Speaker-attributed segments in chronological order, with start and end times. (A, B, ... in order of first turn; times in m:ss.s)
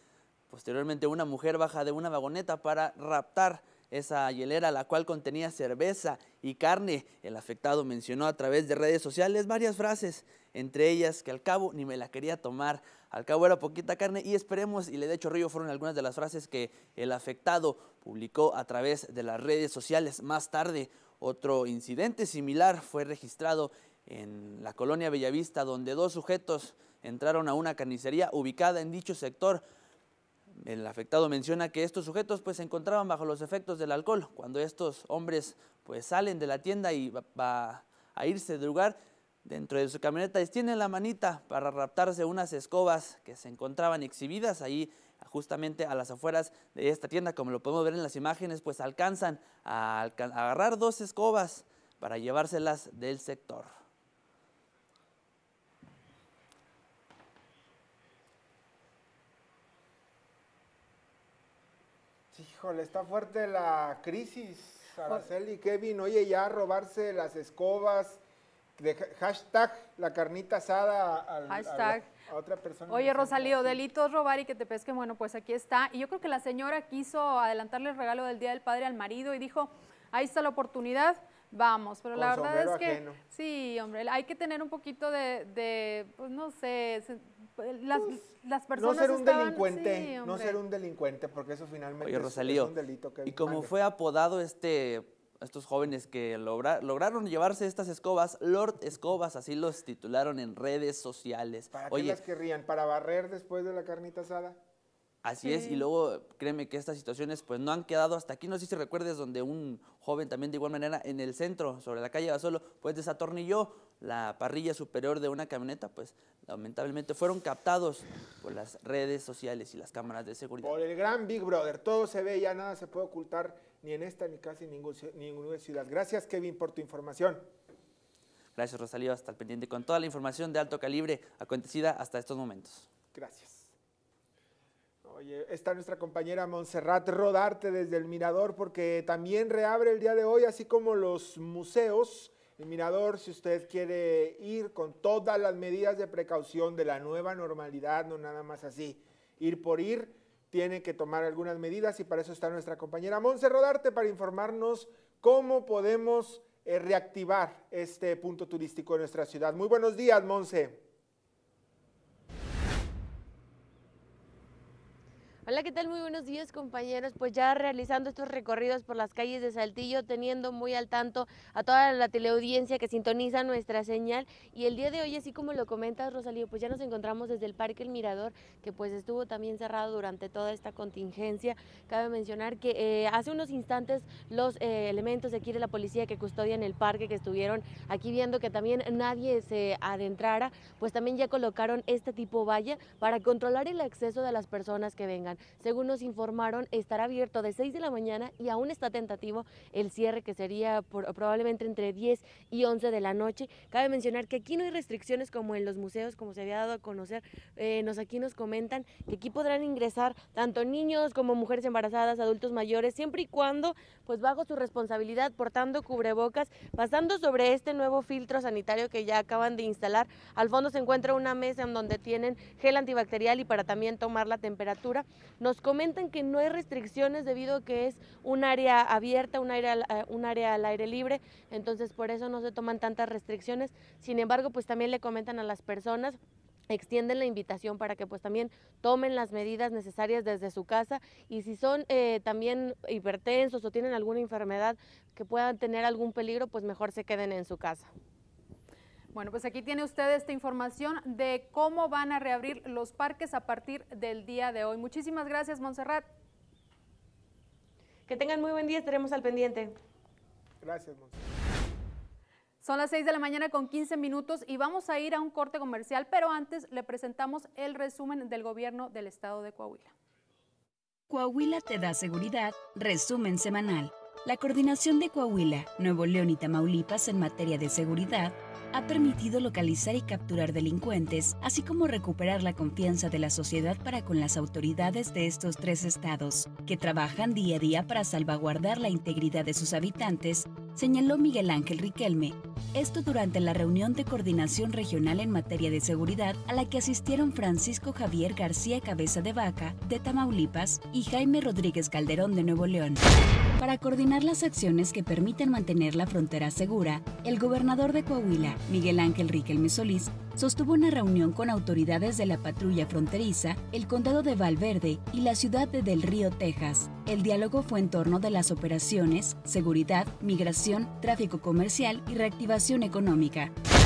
0:00.5-0:29.6 A
0:30.6-0:53.7 A
1:02.3-1:08.2 B
1:08.8-1:13.8 B
1:11.5-1:12.1 C
1:12.9-1:30.6 C
1:22.1-1:23.2 B
1:28.8-1:33.7 B
1:32.0-1:32.7 A
1:33.2-1:42.2 A
1:41.7-1:44.6 B
1:45.2-2:00.8 A
1:45.4-1:45.8 C
2:00.6-2:07.5 B
2:08.6-2:12.9 A
2:13.1-2:13.7 B
2:15.0-2:40.8 B
2:45.5-3:56.2 D
3:56.7-4:07.9 D
4:09.1-4:16.1 C
4:18.1-4:19.8 D
4:20.6-4:21.2 B
4:22.6-4:29.9 C
4:31.1-5:03.0 E
5:03.6-5:23.5 E